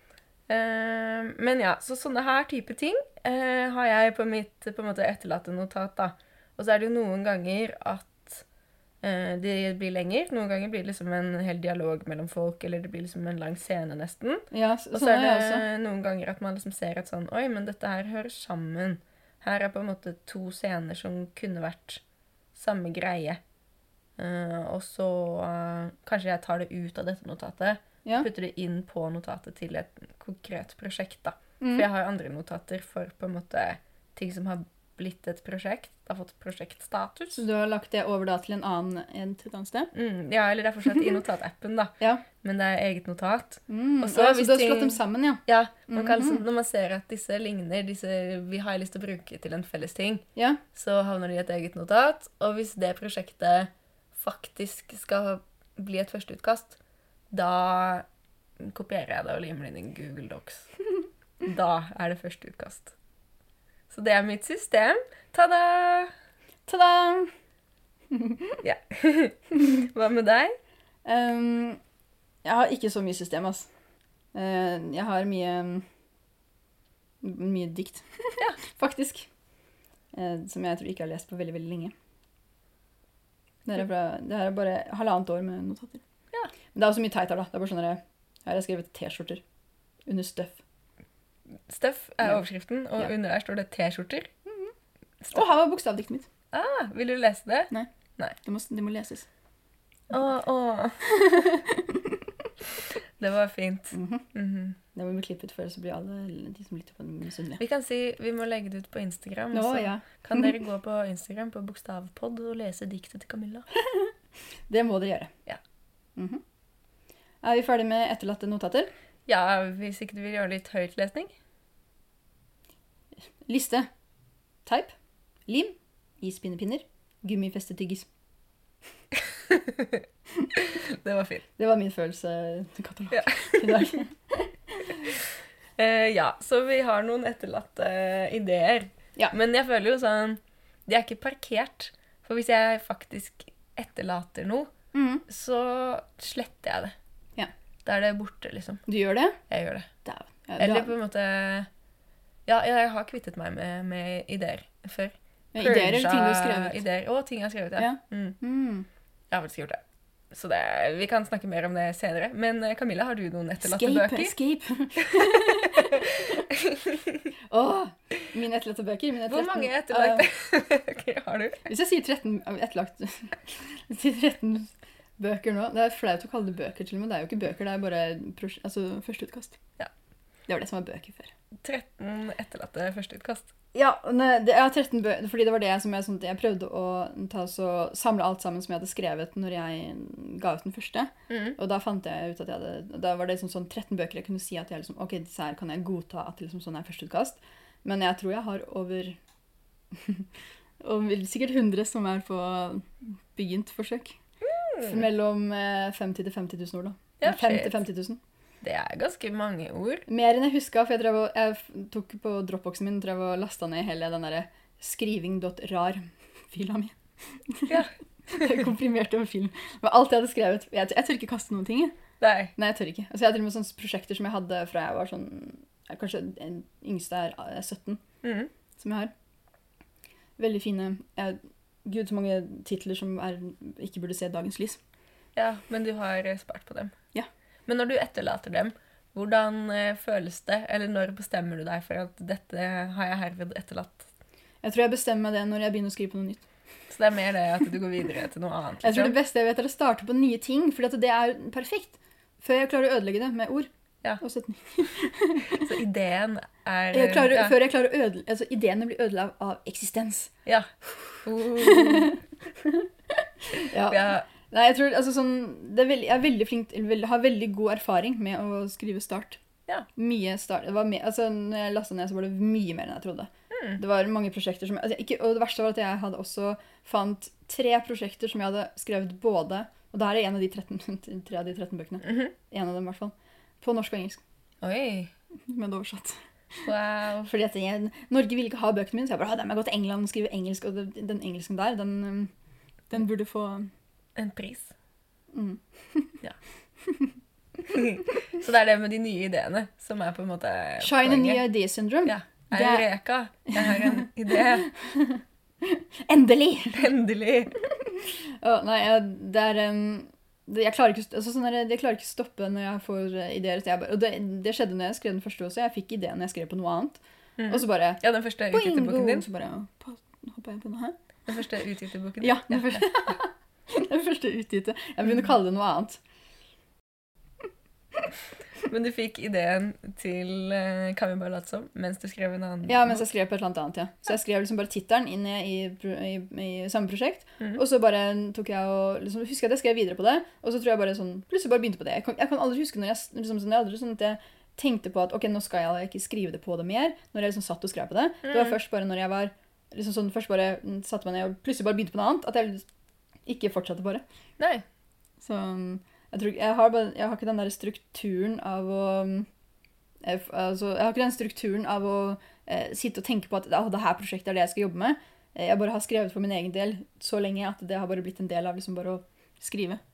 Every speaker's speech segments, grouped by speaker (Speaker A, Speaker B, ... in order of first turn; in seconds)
Speaker A: 0.5-8.4, 9.0-22.0, 22.5-23.4, 24.2-37.4, 39.9-56.8, 57.3-58.0, 58.6-60.7, 61.4-62.9, 63.9-66.1, 68.6-70.5, 91.7-94.3, 95.2-95.5, 96.5-98.4, 100.1-101.1, 103.2-104.8, 107.6-113.7, 119.3-121.3, 129.3-131.4, 133.1-134.0, 135.1-144.7, 145.3-146.9, 147.8-148.8, 149.5-149.9, 150.6-151.7, 152.4-158.4, 159.3-164.3, 165.0-167.3, 169.3-171.7, 181.6-183.5, 191.3-191.6, 204.4-205.0, 207.2-207.8, 208.6-210.1, 217.7-218.6, 222.2-222.5, 228.2-228.5, 235.3-236.9, 237.7-244.1, 246.9-249.2, 255.5-257.6, 261.2-262.1, 263.9-264.3, 273.5-273.8, 282.0-282.3, 284.6-285.1, 286.6-287.3, 294.1-294.7, 297.7-301.5, 302.0-304.7, 306.7-307.6, 317.4-319.2, 321.3-323.1, 328.6-333.1, 348.2-348.6, 354.4-354.6
Speaker B: 14.5-15.7, 31.6-31.9, 37.3-39.9, 43.7-46.4, 50.4-50.6, 66.7-67.3, 68.1-68.6, 71.0-71.8, 72.4-73.7, 74.3-75.8, 77.2-79.3, 80.1-81.9, 83.7-86.0, 86.7-89.4, 90.1-90.6, 94.5-94.7, 95.3-96.3, 98.4-99.3, 101.1-102.5, 103.9-104.3, 104.9-107.6, 109.5-110.5, 113.8-114.1, 114.7-115.3, 116.2-116.4, 117.4-118.9, 123.5-123.9, 124.7-124.9, 125.5-128.1, 131.6-135.1, 144.9-145.2, 148.9-149.4, 150.0-150.9, 155.5-156.8, 157.8-158.9, 163.6-166.5, 167.5-170.3, 171.7-179.6, 180.5-181.3, 183.7-199.2, 199.9-200.2, 200.8-204.2, 204.8-208.2, 210.1-221.9, 222.6-228.0, 228.8-229.1, 230.4-234.8, 244.6-246.5, 248.8-253.7, 254.2-255.7, 256.9-260.3, 261.0-269.4, 269.9-284.2, 285.4-286.7, 287.2-292.3, 292.9-293.7, 295.3-296.2, 296.8-297.1, 300.8-302.9, 303.5-306.9, 307.8-320.9, 322.2-326.0, 332.6-352.7, 353.3-354.0, 355.2-359.3, 360.0-369.8